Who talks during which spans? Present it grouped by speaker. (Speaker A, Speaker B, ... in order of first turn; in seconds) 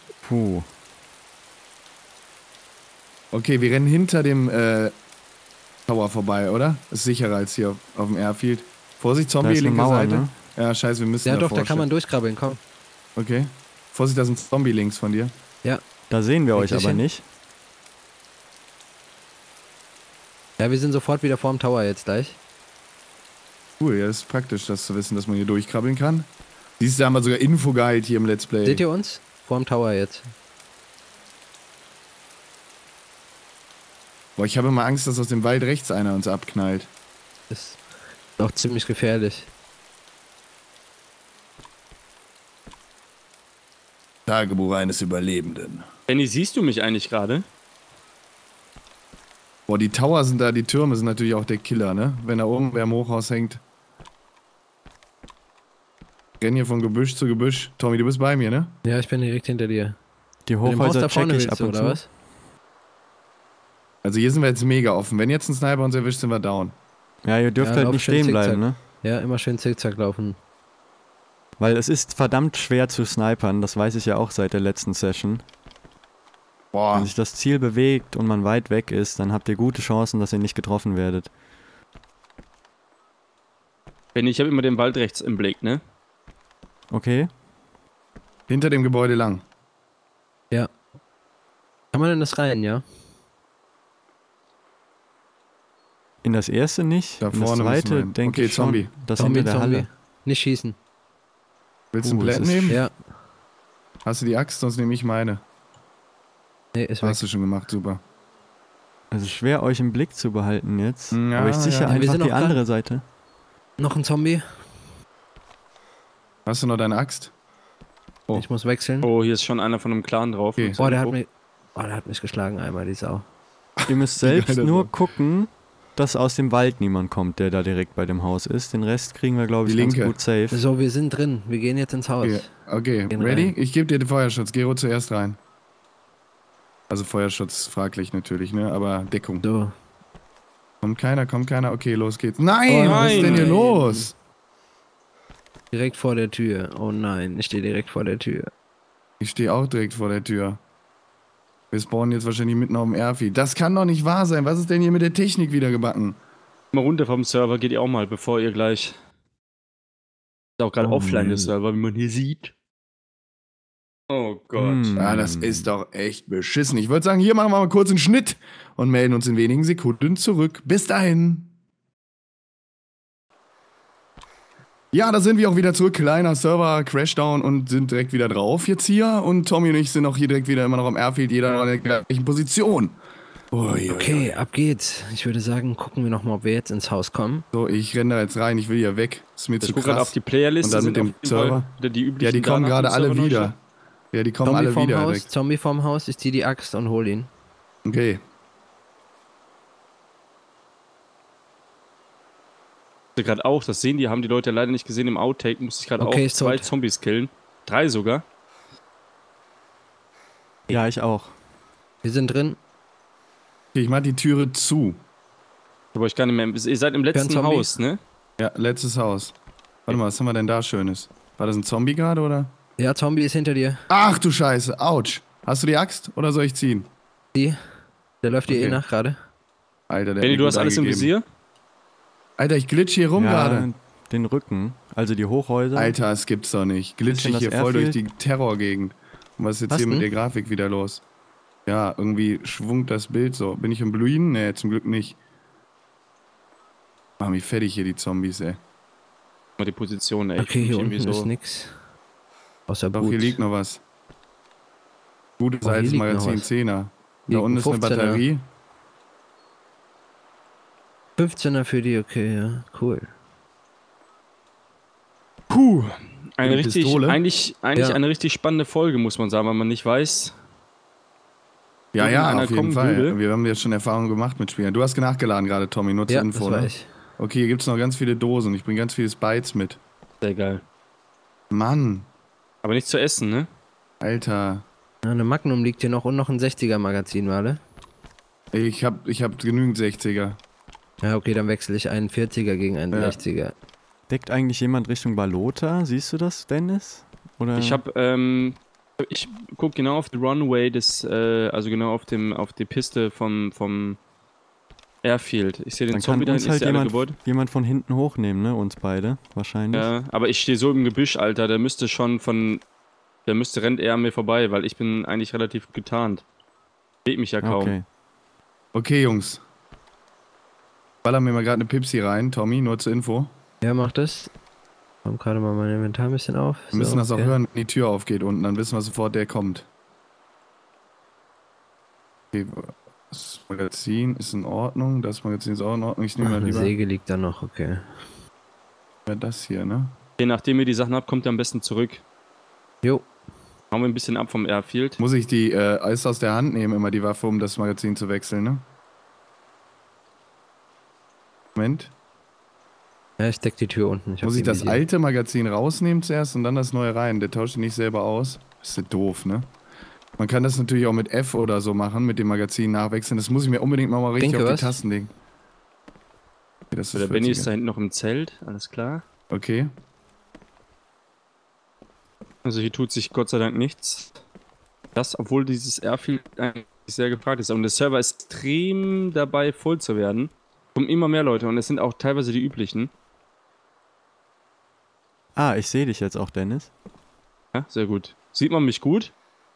Speaker A: 0.2-0.7, 9.4-10.3, 16.1-17.2, 60.5-62.0, 67.2-68.8, 71.6-75.4, 76.9-81.3, 86.9-87.3, 96.2-99.9, 102.0-102.8, 109.1-113.0, 123.9-130.6, 160.9-161.5, 164.6-165.7, 210.7-211.3, 233.2-235.9, 237.1-238.0, 294.1-297.8, 305.9-309.9, 317.4-317.8, 385.4-386.7
Speaker B: 3.3-4.9, 5.9-11.8, 13.2-15.3, 23.8-28.8, 34.4-36.9, 44.2-45.9, 49.7-53.6, 56.4-58.7, 64.0-66.7, 76.7-77.1, 88.5-89.4, 97.2-98.9, 101.9-102.8, 104.0-105.4, 107.0-108.0, 111.1-112.0, 116.5-117.3, 123.8-124.9, 129.6-130.2, 132.2-135.4, 136.9-139.4, 140.8-144.1, 149.2-150.6, 151.7-156.2, 164.9-171.5, 174.9-182.9, 183.5-184.3, 187.5-191.7, 192.2-193.6, 194.1-195.3, 197.8-198.2, 213.7-215.0, 218.4-219.3, 219.8-222.5, 223.9-226.9, 228.5-228.8, 229.9-231.1, 232.4-233.7, 235.7-241.0, 241.7-245.2, 247.2-248.6, 252.9-253.8, 255.4-258.4, 266.4-267.2, 271.9-279.8, 281.5-282.1, 284.0-284.6, 288.5-290.4, 292.9-293.2, 318.7-319.4, 321.0-323.3, 326.7-329.6, 332.3-336.7, 339.1-339.9, 345.0-348.6, 351.6-351.9, 354.2-359.5, 360.2-365.1, 366.7-367.5, 369.3-369.7
Speaker C: 11.2-12.6, 16.5-17.0, 20.6-22.4, 28.6-30.3, 37.5-37.8, 38.4-39.5, 58.8-60.0, 60.6-62.1, 67.6-70.4, 91.9-92.8, 99.2-100.8, 102.7-102.9, 106.7-107.2, 111.9-112.6, 113.8-114.7, 118.3-119.1, 120.8-123.2, 130.5-132.5, 133.1-133.5, 139.4-139.7, 142.7-144.1, 145.7-148.5, 183.8-187.4, 194.4-197.3, 206.0-206.7, 212.0-212.6, 217.1-217.7, 222.8-223.8, 227.3-227.6, 228.2-229.2, 239.7-240.1, 250.4-251.8, 252.7-253.4, 255.6-256.5, 257.3-258.2, 261.2-263.1, 276.1-276.9, 285.0-287.6, 291.0-293.5, 323.6-324.3, 325.0-327.3, 336.2-338.0, 342.8-343.1, 353.2-354.8, 364.2-364.8
Speaker D: 46.1-47.4, 84.1-85.8, 119.0-121.1, 142.8-143.6, 156.7-158.9, 160.6-162.5, 164.1-164.9, 189.6-193.5, 203.2-208.2, 215.9-218.0, 230.2-231.2, 249.6-251.3, 265.5-270.3, 272.0-273.2, 280.2-280.6, 282.6-283.5, 297.5-304.0, 305.0-307.2, 309.7-312.6, 313.2-316.2, 317.0-317.7, 340.2-342.0, 343.7-345.0, 366.9-369.0, 372.4-374.1, 374.9-382.9, 387.5-389.1